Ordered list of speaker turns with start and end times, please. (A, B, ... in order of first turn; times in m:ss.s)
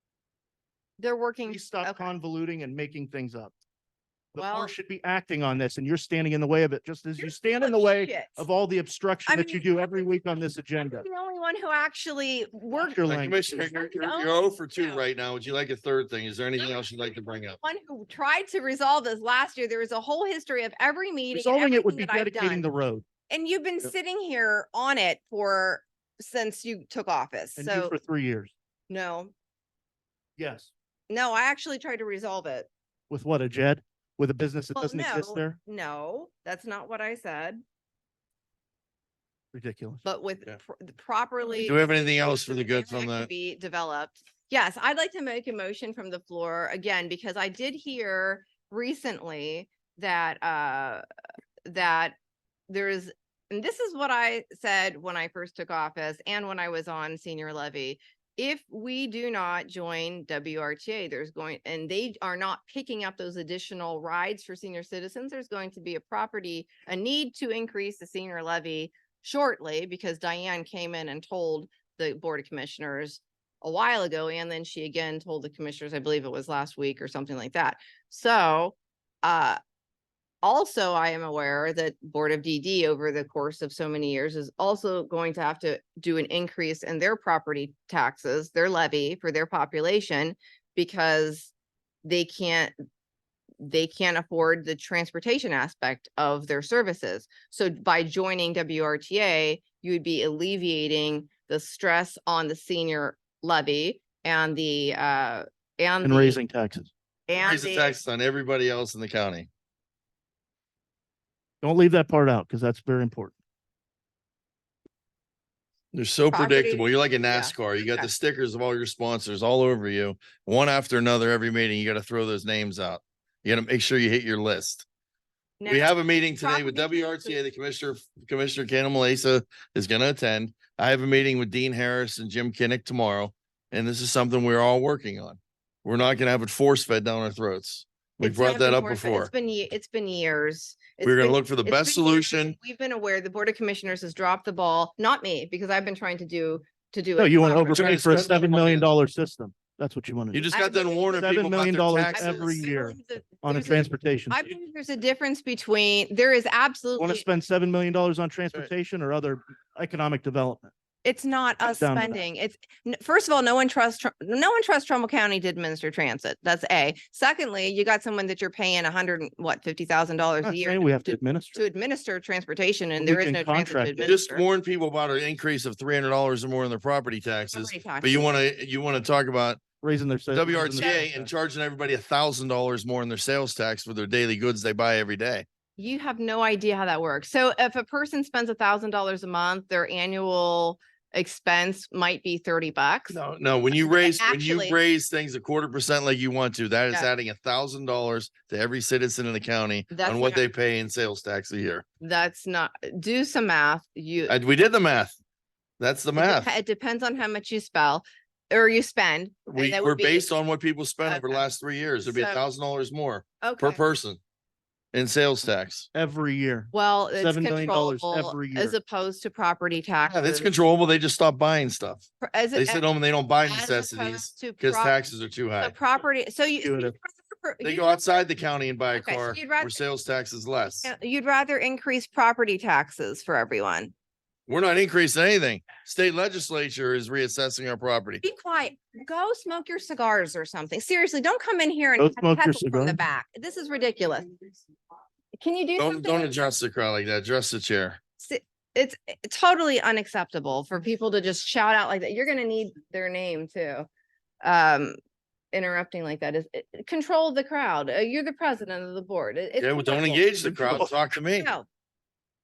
0:01.0-0:02.1 A
0:01.5-0:03.5 B
0:04.3-0:11.0 B
0:04.4-0:04.8 A
0:07.2-0:08.4 A
0:09.3-0:09.7 A
0:10.8-0:15.0 A
0:12.7-0:13.4 B
0:13.1-0:17.6 C
0:17.6-0:22.7 A
0:21.3-0:23.1 B
0:23.3-0:28.0 A
0:27.6-0:28.5 B
0:28.9-0:29.3 A
0:30.4-0:30.7 B
0:31.1-0:32.7 A
0:33.1-0:35.6 B
0:34.8-0:37.6 A
0:39.5-0:40.0 B
0:40.0-0:51.0 A
0:41.6-0:43.3 C
0:51.7-0:52.2 A
0:52.7-1:19.6 A
1:20.4-1:31.5 A
1:32.0-1:32.7 A
1:33.6-1:46.4 A
1:46.0-1:46.9 B
1:47.3-1:47.9 A
1:47.4-1:49.5 C
1:51.6-1:53.4 B
1:55.9-2:04.9 C
1:56.3-1:58.1 A
2:05.6-2:07.4 A
2:05.7-2:19.3 C
2:18.2-2:27.9 A
2:21.0-2:22.6 C
2:27.2-2:30.5 B
2:27.7-2:28.9 C
2:30.3-2:32.5 C
2:30.5-2:31.3 A
2:31.2-2:34.4 B
2:32.1-2:37.3 A
2:37.0-2:40.7 B
2:41.0-2:54.4 A
2:41.6-2:42.2 B
2:50.4-2:51.6 B
2:53.0-2:54.0 B
2:54.0-2:59.6 C
2:57.5-2:58.4 A
2:59.8-3:01.3 B
3:00.3-3:05.5 C
3:00.8-3:01.0 A
3:05.8-3:13.2 A
3:13.1-3:21.8 C
3:13.8-3:14.8 A
3:19.9-3:20.4 A
3:22.0-3:24.3 A
3:24.3-3:25.2 C
3:25.8-3:26.5 C
3:26.2-3:30.3 A
3:29.5-3:34.2 C
3:31.0-3:31.4 A
3:32.1-3:32.4 A
3:33.4-3:33.8 A
3:34.9-3:35.9 C
3:35.9-3:38.8 B
3:36.7-3:40.5 A
3:40.1-3:45.7 C
3:42.2-3:42.8 A
3:43.4-3:45.0 A
3:45.6-3:48.0 A
3:46.6-3:46.9 B
3:47.6-3:50.9 C
3:48.9-3:49.8 A
3:50.8-3:53.9 A
3:54.5-3:58.2 C
3:58.2-4:04.3 A
4:02.0-4:03.0 B
4:05.4-4:06.3 A
4:05.8-4:08.0 C
4:08.2-4:13.9 A
4:14.4-4:15.0 A
4:15.5-4:20.5 A
4:19.6-4:21.5 C
4:20.4-4:20.9 B
4:21.4-4:21.7 A